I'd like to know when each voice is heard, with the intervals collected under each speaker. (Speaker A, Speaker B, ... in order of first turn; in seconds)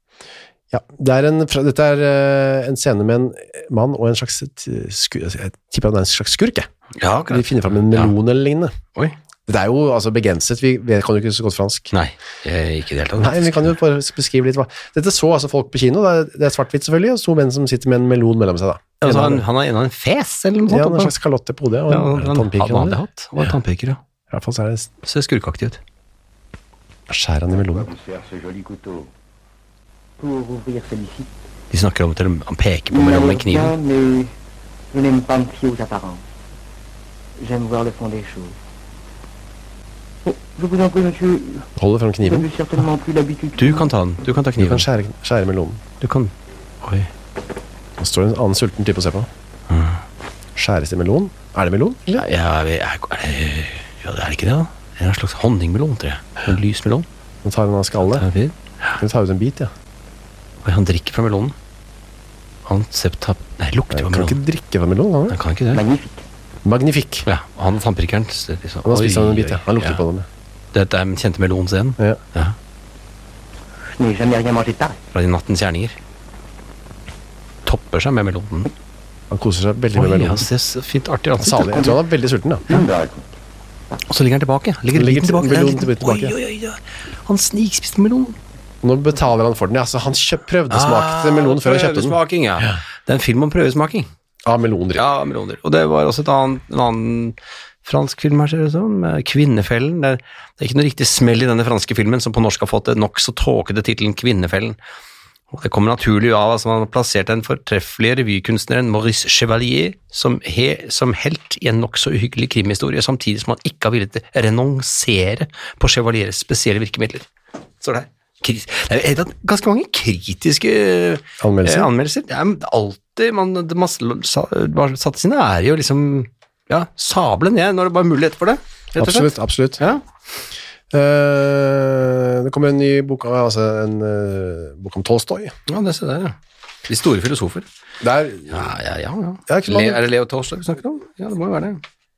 Speaker A: 0.7-6.7, 7.3-8.7, 9.5-11.9, 13.2-19.4, 20.7-23.0, 24.3-24.9, 27.1-27.9, 41.8-42.5, 44.6-45.8, 48.0-49.3, 50.6-52.2, 57.4-58.3, 59.0-59.7, 63.9-65.4, 66.7-67.3, 68.8-70.3, 79.3-80.5, 81.4-82.7, 84.9-86.4, 88.8-92.2, 94.5-95.0, 121.4-121.9, 129.0-129.8, 130.9-135.6, 138.0-138.7, 139.5-140.0
Speaker B: 7.0-8.1, 11.9-13.7, 19.0-21.1, 21.9-24.0, 25.0-25.8, 31.7-33.7, 43.6-44.9, 46.0-47.1, 49.7-50.0, 52.1-57.1, 58.1-59.0, 60.6-61.5, 62.7-64.4, 65.3-65.8, 67.3-70.0, 70.7-72.6, 75.1-76.0, 77.7-78.7, 79.9-81.8, 84.1-88.4, 90.7-94.1, 95.0-104.8, 105.5-117.3, 117.8-130.0, 135.7-137.7, 138.5-141.8
Speaker C: 27.6-29.1, 30.2-31.3, 32.9-34.3, 34.9-36.2, 37.4-38.6, 40.2-41.7, 42.2-43.9, 65.7-66.2, 73.9-75.0, 81.7-82.0, 82.7-83.3